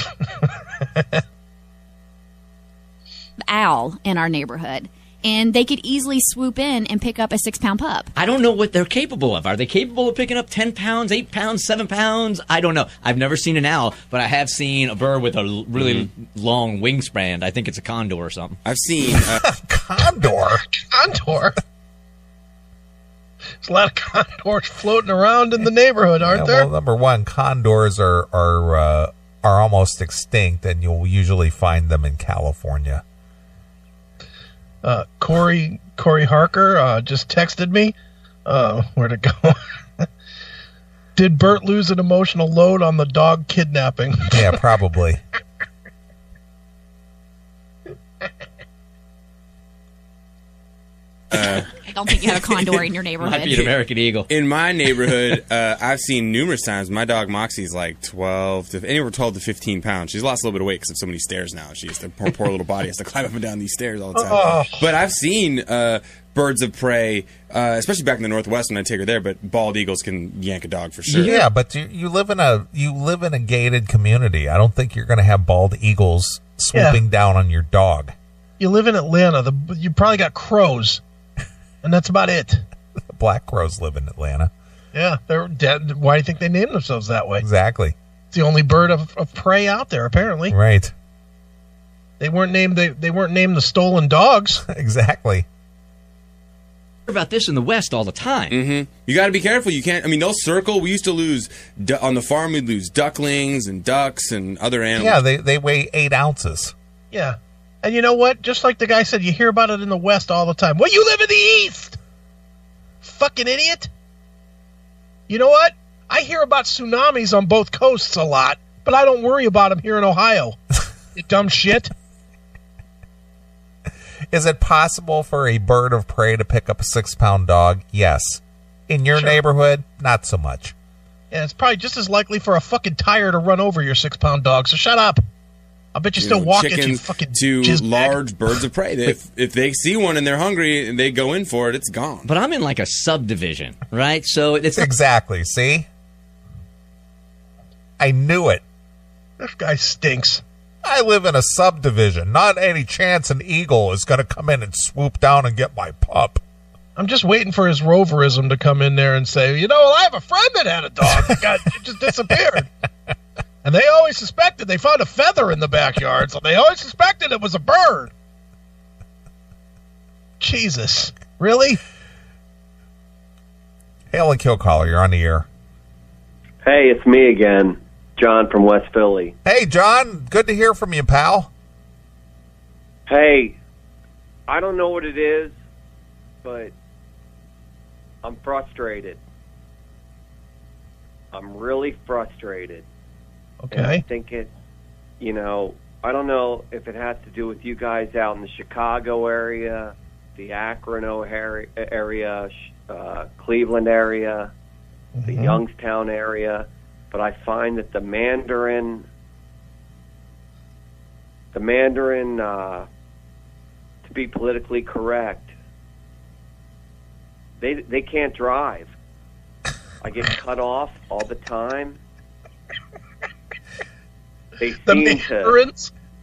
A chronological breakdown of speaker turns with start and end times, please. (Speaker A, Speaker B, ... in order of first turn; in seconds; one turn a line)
Speaker A: 0.9-1.2
Speaker B: 3.4-8.1
Speaker C: 8.2-18.6
Speaker D: 15.8-16.1
Speaker D: 18.6-19.4
Speaker E: 19.4-20.6
Speaker A: 20.7-21.6
Speaker A: 23.6-26.7
Speaker E: 26.2-33.0
Speaker A: 34.8-37.9
Speaker A: 38.5-40.1
Speaker A: 41.1-44.5
Speaker E: 44.3-45.2
Speaker D: 51.3-51.7
Speaker B: 51.4-53.7
Speaker C: 53.2-54.3
Speaker D: 54.3-71.4
Speaker A: 64.1-64.8
Speaker E: 71.1-78.1
Speaker A: 76.7-77.0
Speaker A: 78.6-81.0
Speaker A: 81.8-82.6
Speaker E: 83.1-84.5
Speaker A: 84.9-87.5
Speaker E: 87.4-87.9
Speaker A: 88.3-90.5
Speaker E: 90.5-90.9
Speaker A: 92.2-94.6
Speaker E: 94.7-95.5
Speaker C: 97.1-98.5
Speaker D: 98.5-105.2
Speaker E: 105.0-106.7
Speaker A: 107.1-112.0
Speaker A: 113.0-113.9
Speaker A: 115.3-120.6
Speaker A: 121.1-121.9
Speaker E: 124.3-130.7
Speaker A: 129.1-129.4
Speaker A: 131.3-135.2
Speaker A: 135.9-138.2
Speaker D: 136.2-142.3
Speaker C: 142.2-144.9
Speaker E: 144.7-145.9
Speaker E: 148.0-148.6
Speaker A: 149.4-150.4
Speaker E: 150.8-156.4
Speaker A: 156.9-162.7
Speaker A: 163.6-168.1
Speaker A: 170.4-171.8
Speaker E: 174.1-175.5
Speaker F: 176.6-179.3
Speaker E: 179.4-181.5
Speaker F: 183.1-183.6
Speaker F: 184.5-185.5
Speaker F: 186.4-186.7
Speaker F: 188.2-189.2
Speaker F: 191.3-192.8
Speaker A: 193.6-194.0
Speaker F: 193.7-194.5
Speaker F: 195.2-204.5
Speaker A: 205.1-205.6
Speaker F: 205.3-209.1
Speaker F: 211.5-212.8
Speaker F: 214.0-215.5
Speaker F: 217.6-218.9
Speaker F: 220.0-222.0
Speaker F: 224.6-225.6
Speaker A: 224.8-225.9